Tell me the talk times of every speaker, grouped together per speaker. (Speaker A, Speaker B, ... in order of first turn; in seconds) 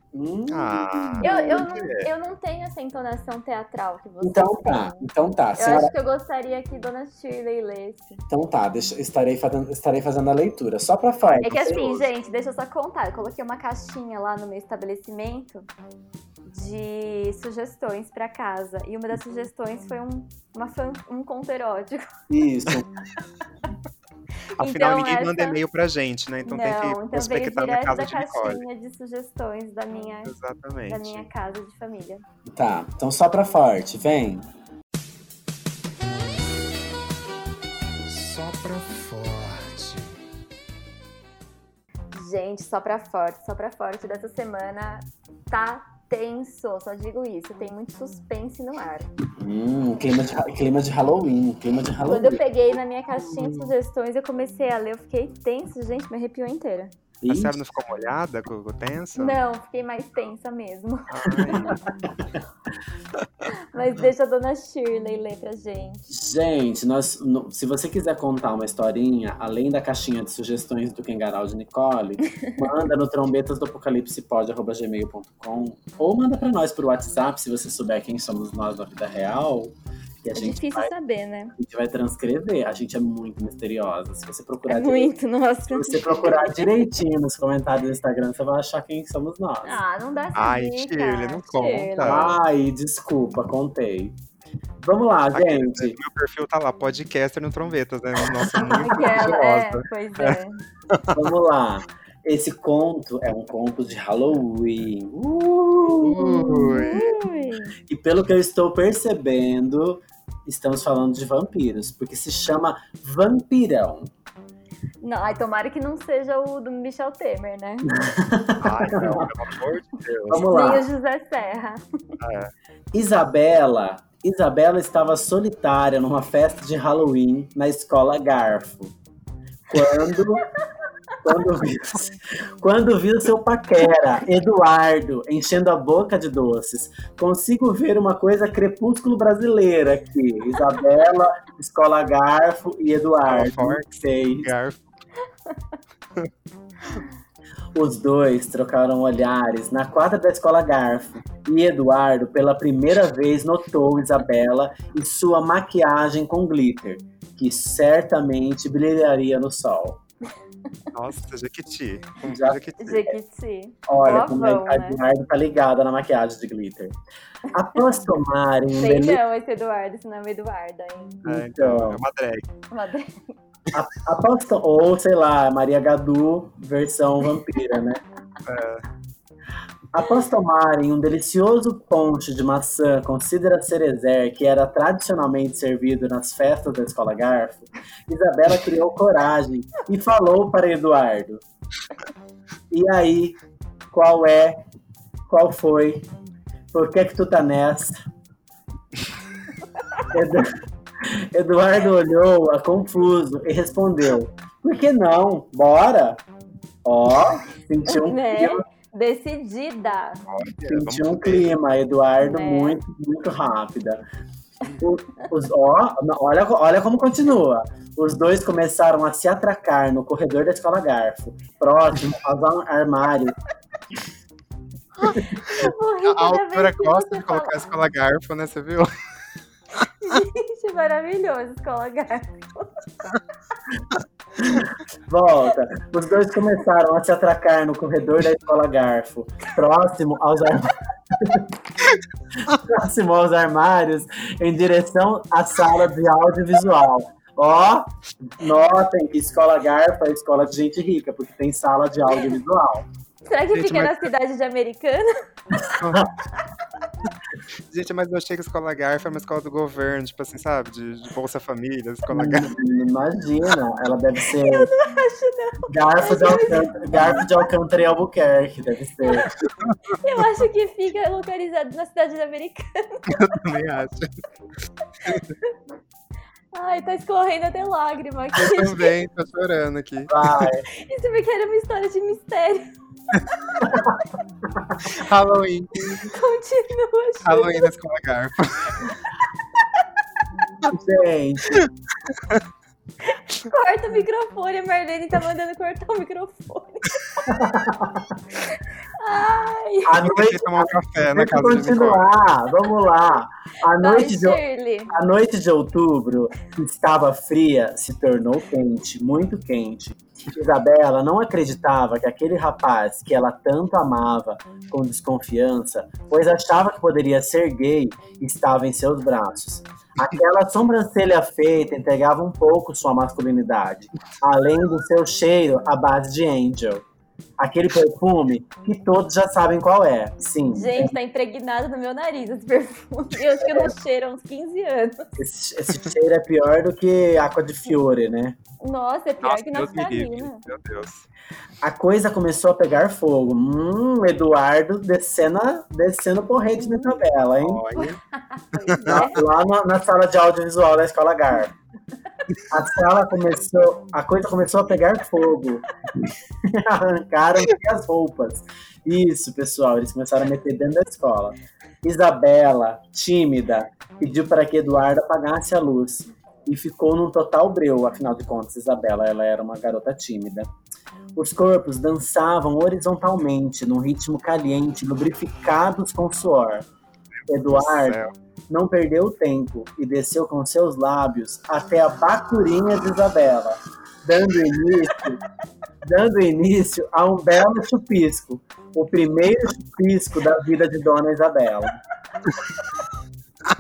Speaker A: 0.1-1.6, 4.2-5.9, 8.3-12.1, 22.3-22.9, 32.5-34.5, 49.4-52.4, 53.2-53.6, 57.2-57.6, 61.5-62.1, 66.1-80.9, 81.6-85.1, 85.7-89.8, 92.0-94.2, 94.8-96.0, 98.2-99.2, 101.1-106.6, 107.9-114.1, 117.9-119.3, 120.3-120.9, 122.9-128.9, 129.7-130.5, 131.2-144.5, 147.7-160.0, 162.2-162.6, 163.9-167.0, 167.5-169.2, 171.2-172.0, 173.7-178.0, 179.9-191.4, 192.7-193.4, 193.9-194.6, 195.3-196.1, 196.7-198.0, 200.1-206.2, 206.8-208.6, 210.7-214.0, 214.8-223.4, 234.4-241.5, 242.4-252.9, 262.1-264.7, 265.7-269.3, 280.1-280.7, 290.6-291.6, 297.3-298.0, 299.9-304.4, 304.9-326.9, 327.4-330.9, 333.4-333.7, 335.2-338.4, 341.6-347.6, 348.9-351.5, 352.5-355.6, 356.4-370.5, 371.1-376.7, 377.3-385.2, 385.8-391.8
Speaker B: 0.5-2.1, 24.6-28.6, 30.2-31.3, 38.1-40.2, 57.3-59.4, 61.1-61.8, 90.3-92.4, 95.3-100.4, 100.9-101.3, 105.9-107.2, 118.6-120.5, 122.2-122.5, 143.2-143.9, 144.4-144.9, 160.9-163.1, 171.2-172.4, 178.4-178.8, 210.3-211.6, 225.5-228.9, 253.5-254.1, 255.6-256.1, 257.7-262.5, 269.6-269.9, 273.1-274.1, 278.4-280.5, 284.8-286.1, 287.2-288.9, 291.6-292.4, 300.0-302.1, 339.2-341.1, 347.4-348.0, 348.6-349.1, 377.3-378.1
Speaker C: 1.2-8.2, 11.4-15.7, 16.4-22.1, 24.6-25.6, 26.4-30.3, 30.9-32.2, 42.1-49.1, 52.0-56.9, 59.2-61.7, 63.5-66.1, 72.2-72.7, 80.3-81.5, 84.7-86.7, 89.6-92.4, 98.7-100.6, 106.2-107.8, 115.0-118.0, 120.3-121.8, 162.8-165.0, 168.8-171.2, 172.7-173.4, 207.9-210.2, 212.2-212.8, 225.0-227.7, 230.0-232.7, 253.3-255.8, 264.2-267.4, 269.0-269.3, 269.9-273.2, 276.5-278.9, 280.8-282.7, 286.1-287.7, 293.1-297.5, 298.4-300.1, 303.8-304.9, 330.5-335.2, 338.6-340.4, 346.6-347.0, 347.8-349.2